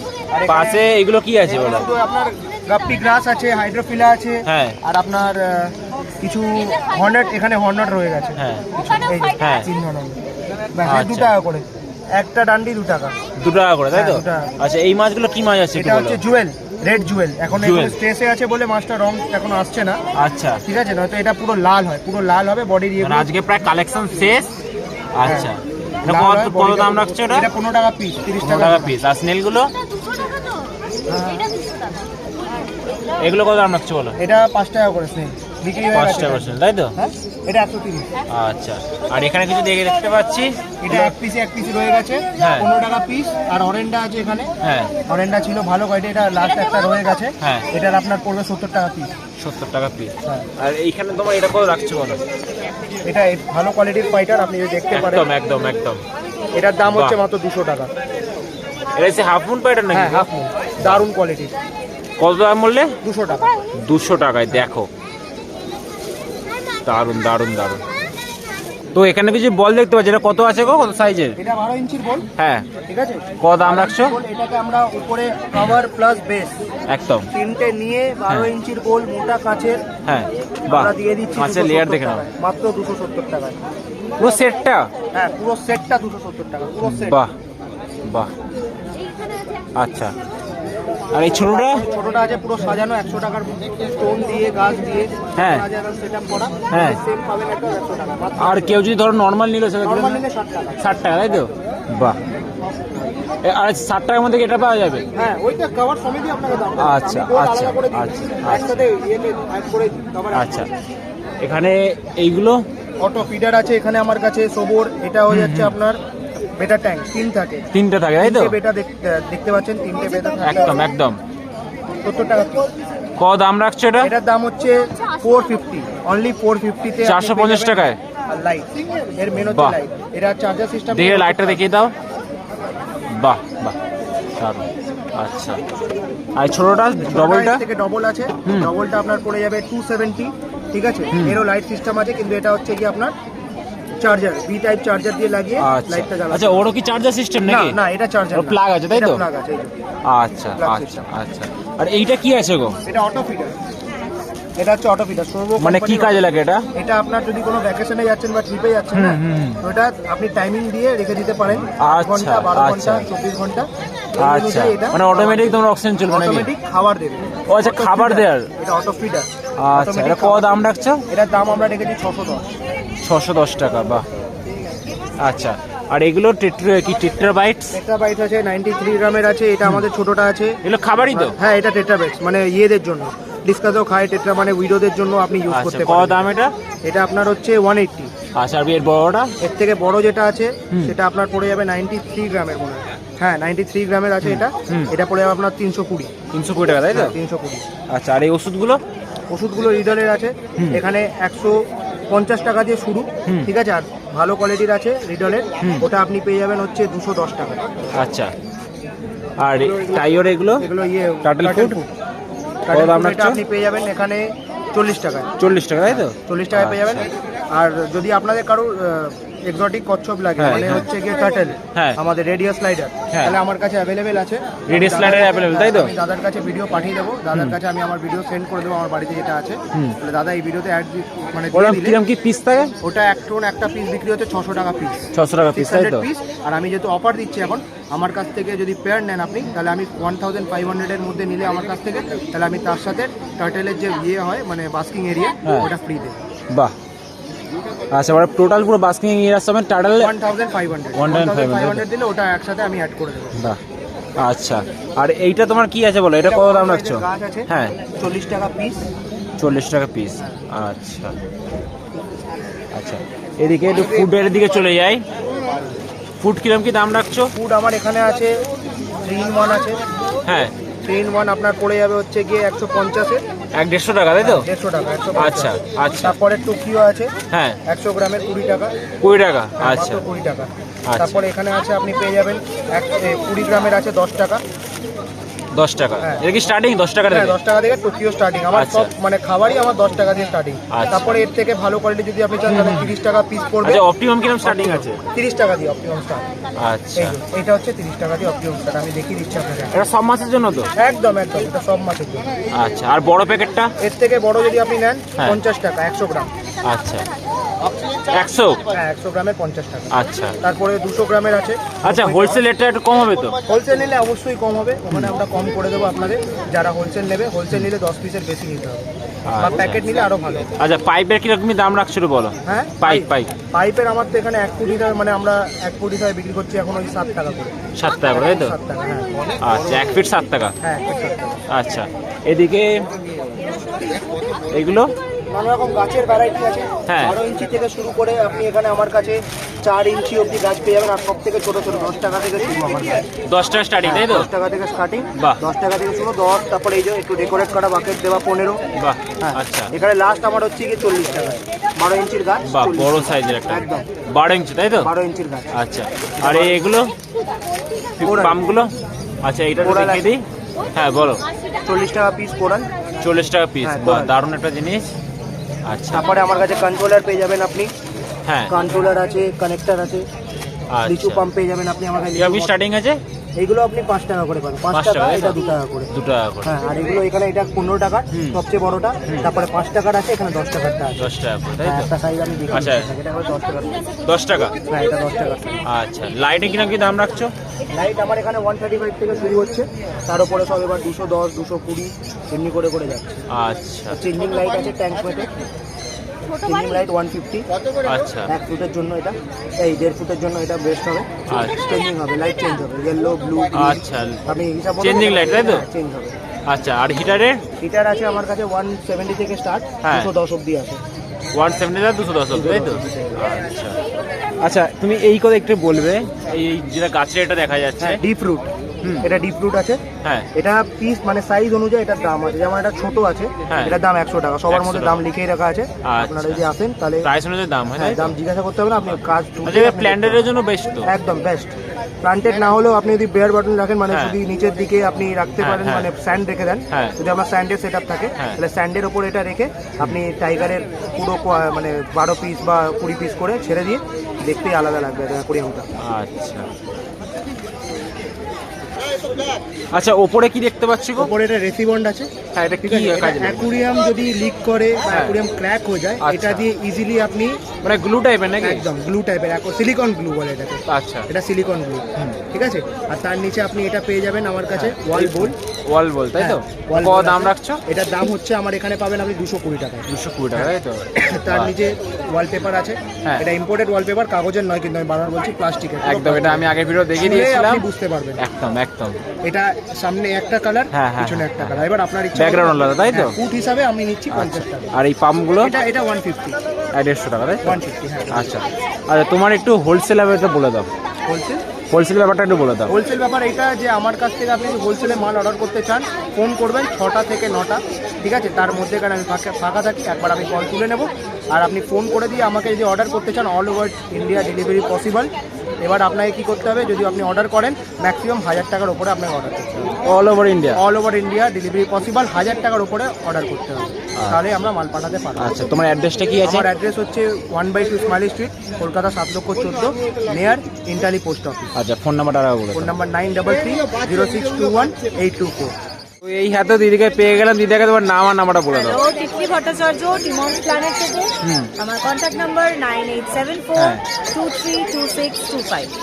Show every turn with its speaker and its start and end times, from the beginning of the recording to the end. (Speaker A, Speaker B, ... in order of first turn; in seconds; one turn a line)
Speaker A: 0.3-0.8
Speaker B: 0.5-1.9
Speaker A: 1.4-10.2
Speaker B: 4.5-4.8
Speaker B: 8.4-8.7
Speaker B: 9.4-9.7
Speaker A: 10.8-13.1
Speaker B: 10.9-11.3
Speaker B: 13.4-16.2
Speaker A: 13.9-14.5
Speaker A: 15.8-20.0
Speaker B: 17.6-18.0
Speaker B: 20.1-20.6
Speaker A: 20.7-23.3
Speaker B: 23.0-24.5
Speaker B: 25.2-27.5
Speaker A: 26.1-29.0
Speaker B: 28.4-29.7
Speaker A: 31.1-31.5
Speaker B: 33.2-34.2
Speaker A: 34.2-38.1
Speaker B: 35.9-36.9
Speaker B: 38.3-41.1
Speaker A: 40.8-44.5
Speaker B: 42.4-42.7
Speaker B: 44.6-44.9
Speaker A: 45.1-49.1
Speaker B: 47.4-47.7
Speaker B: 49.4-52.2
Speaker A: 53.0-55.3
Speaker B: 54.9-56.0
Speaker A: 56.5-57.9
Speaker B: 56.9-57.2
Speaker B: 59.0-60.3
Speaker A: 59.9-61.6
Speaker B: 60.8-61.1
Speaker B: 62.2-62.9
Speaker A: 63.0-63.5
Speaker B: 63.8-64.9
Speaker B: 66.8-67.8
Speaker B: 68.9-71.4
Speaker A: 71.4-72.3
Speaker B: 72.4-72.7
Speaker A: 72.9-76.6
Speaker B: 73.4-74.2
Speaker B: 76.9-77.3
Speaker A: 77.3-79.8
Speaker B: 80.1-82.3
Speaker A: 80.7-83.6
Speaker B: 84.2-84.9
Speaker A: 85.1-87.2
Speaker B: 86.8-87.3
Speaker B: 88.1-88.3
Speaker B: 89.8-90.1
Speaker B: 91.1-91.9
Speaker A: 91.4-98.8
Speaker B: 95.4-95.7
Speaker B: 96.7-97.0
Speaker B: 98.4-100.2
Speaker A: 99.8-100.8
Speaker B: 100.8-102.2
Speaker B: 103.4-105.1
Speaker A: 105.2-110.7
Speaker B: 106.8-108.8
Speaker B: 110.3-110.7
Speaker B: 111.4-112.6
Speaker A: 113.0-116.0
Speaker B: 115.3-115.8
Speaker A: 116.6-117.7
Speaker B: 117.7-118.6
Speaker A: 118.2-120.8
Speaker B: 120.4-121.2
Speaker A: 122.0-122.7
Speaker B: 123.2-124.1
Speaker A: 124.0-131.6
Speaker B: 127.0-128.0
Speaker B: 129.4-129.8
Speaker B: 130.9-131.9
Speaker B: 133.1-133.8
Speaker B: 134.4-135.6
Speaker B: 136.4-137.6
Speaker A: 137.0-143.1
Speaker B: 138.5-138.7
Speaker B: 141.1-141.4
Speaker A: 144.0-146.7
Speaker B: 145.6-147.8
Speaker A: 147.4-149.7
Speaker B: 148.3-149.2
Speaker B: 150.1-152.8
Speaker A: 150.6-151.1
Speaker A: 152.9-153.6
Speaker A: 154.6-156.2
Speaker B: 155.6-156.7
Speaker A: 156.8-170.5
Speaker B: 158.9-159.6
Speaker B: 161.6-163.1
Speaker B: 164.2-166.5
Speaker B: 167.5-168.5
Speaker B: 169.6-171.0
Speaker A: 171.1-172.5
Speaker B: 173.0-174.1
Speaker B: 175.2-177.8
Speaker A: 177.7-186.3
Speaker B: 180.7-181.4
Speaker B: 185.5-186.5
Speaker A: 186.9-188.1
Speaker B: 188.4-189.3
Speaker A: 189.4-196.1
Speaker B: 194.2-194.9
Speaker B: 196.3-197.2
Speaker A: 196.9-197.6
Speaker B: 197.9-198.8
Speaker A: 199.3-207.6
Speaker B: 205.6-205.9
Speaker B: 208.0-208.3
Speaker B: 209.4-210.7
Speaker A: 209.8-210.0
Speaker A: 210.6-211.9
Speaker B: 211.2-211.8
Speaker A: 212.7-215.3
Speaker B: 212.7-213.4
Speaker B: 215.4-217.1
Speaker A: 215.9-232.0
Speaker B: 220.4-220.9
Speaker B: 224.7-225.9
Speaker B: 231.5-232.7
Speaker A: 232.8-246.2
Speaker B: 235.1-236.1
Speaker B: 247.9-250.1
Speaker A: 250.0-253.4
Speaker B: 250.9-251.8
Speaker B: 253.4-253.6
Speaker B: 254.2-257.8
Speaker A: 256.2-258.9
Speaker B: 259.4-261.1
Speaker B: 262.7-265.0
Speaker B: 266.2-267.3
Speaker A: 267.3-268.4
Speaker A: 269.0-269.8
Speaker B: 270.3-270.5
Speaker A: 270.9-273.2
Speaker B: 273.6-274.5
Speaker A: 274.2-277.1
Speaker B: 275.2-276.2
Speaker B: 277.3-277.6
Speaker A: 277.7-278.7
Speaker B: 279.0-280.0
Speaker A: 279.6-284.4
Speaker B: 280.9-281.2
Speaker B: 285.5-287.4
Speaker A: 287.1-293.8
Speaker B: 288.5-288.9
Speaker B: 290.7-291.1
Speaker B: 292.5-293.0
Speaker B: 293.6-295.0
Speaker A: 294.4-296.3
Speaker B: 296.6-297.2
Speaker A: 297.0-299.9
Speaker B: 299.7-300.7
Speaker A: 300.8-302.3
Speaker B: 302.5-303.7
Speaker A: 303.8-306.3
Speaker B: 306.6-307.1
Speaker B: 308.1-308.6
Speaker A: 308.7-312.4
Speaker B: 309.9-310.4
Speaker B: 311.8-313.4
Speaker A: 313.5-318.9
Speaker B: 319.3-319.9
Speaker A: 319.4-320.5
Speaker B: 320.6-323.3
Speaker A: 322.5-327.6
Speaker B: 327.8-328.6
Speaker A: 328.1-329.1
Speaker B: 329.4-330.6
Speaker A: 330.6-331.4
Speaker B: 331.5-332.9
Speaker B: 334.5-334.9
Speaker A: 335.3-343.1
Speaker B: 336.9-337.2
Speaker B: 343.2-344.3
Speaker A: 343.8-348.6
Speaker B: 348.8-349.7
Speaker A: 349.2-353.9
Speaker B: 352.4-354.9
Speaker A: 354.8-355.5
Speaker B: 355.5-356.9
Speaker A: 356.2-356.6
Speaker B: 358.0-361.2
Speaker A: 358.0-358.4
Speaker A: 359.6-360.0
Speaker A: 361.6-362.7
Speaker B: 363.0-364.9
Speaker A: 363.6-364.1
Speaker B: 365.7-366.1
Speaker A: 365.9-367.7
Speaker B: 368.3-368.5
Speaker A: 368.5-370.1
Speaker B: 370.7-371.3
Speaker A: 370.9-372.6
Speaker B: 372.2-373.0
Speaker A: 373.4-375.9
Speaker B: 374.7-376.5
Speaker A: 376.4-381.1
Speaker B: 378.1-378.4
Speaker B: 381.0-381.9
Speaker A: 381.6-383.8
Speaker B: 382.5-382.9
Speaker B: 384.1-384.5
Speaker A: 384.7-385.6
Speaker B: 385.7-387.3
Speaker A: 387.7-393.2
Speaker B: 393.3-394.0
Speaker A: 393.9-395.3
Speaker C: 396.3-396.9
Speaker A: 396.5-397.5
Speaker B: 397.9-398.3
Speaker A: 398.3-406.1
Speaker B: 401.3-401.8
Speaker B: 403.5-404.2
Speaker B: 404.8-405.6
Speaker B: 406.5-407.4
Speaker A: 407.6-410.8
Speaker B: 409.8-410.1
Speaker B: 411.3-413.8
Speaker A: 412.4-413.1
Speaker B: 414.4-418.0
Speaker A: 417.8-418.5
Speaker B: 418.8-419.1
Speaker A: 419.0-419.8
Speaker A: 420.4-427.1
Speaker B: 423.5-423.8
Speaker B: 424.5-425.0
Speaker B: 425.8-426.4
Speaker B: 427.0-428.1
Speaker A: 427.8-430.3
Speaker B: 428.9-430.9
Speaker A: 430.9-445.7
Speaker B: 433.9-434.2
Speaker B: 435.4-435.9
Speaker B: 445.8-446.5
Speaker B: 449.7-451.1
Speaker A: 451.0-452.1
Speaker B: 452.3-453.5
Speaker A: 452.6-457.5
Speaker B: 454.9-455.2
Speaker B: 456.0-456.5
Speaker B: 457.6-458.7
Speaker A: 458.4-465.4
Speaker B: 460.7-461.1
Speaker B: 464.5-467.6
Speaker A: 466.2-478.2
Speaker B: 469.9-471.5
Speaker B: 475.8-477.7
Speaker B: 478.2-479.0
Speaker A: 479.2-484.7
Speaker B: 480.7-483.2
Speaker B: 484.1-485.6
Speaker A: 485.4-486.4
Speaker B: 486.7-490.7
Speaker A: 487.4-488.3
Speaker A: 491.1-491.4
Speaker B: 491.7-492.7
Speaker A: 492.7-509.8
Speaker B: 509.8-510.6
Speaker A: 510.5-515.5
Speaker B: 515.2-516.5
Speaker A: 516.2-521.5
Speaker B: 521.6-522.7
Speaker A: 522.5-525.5
Speaker B: 526.0-528.8
Speaker C: 528.5-535.7
Speaker B: 531.2-531.5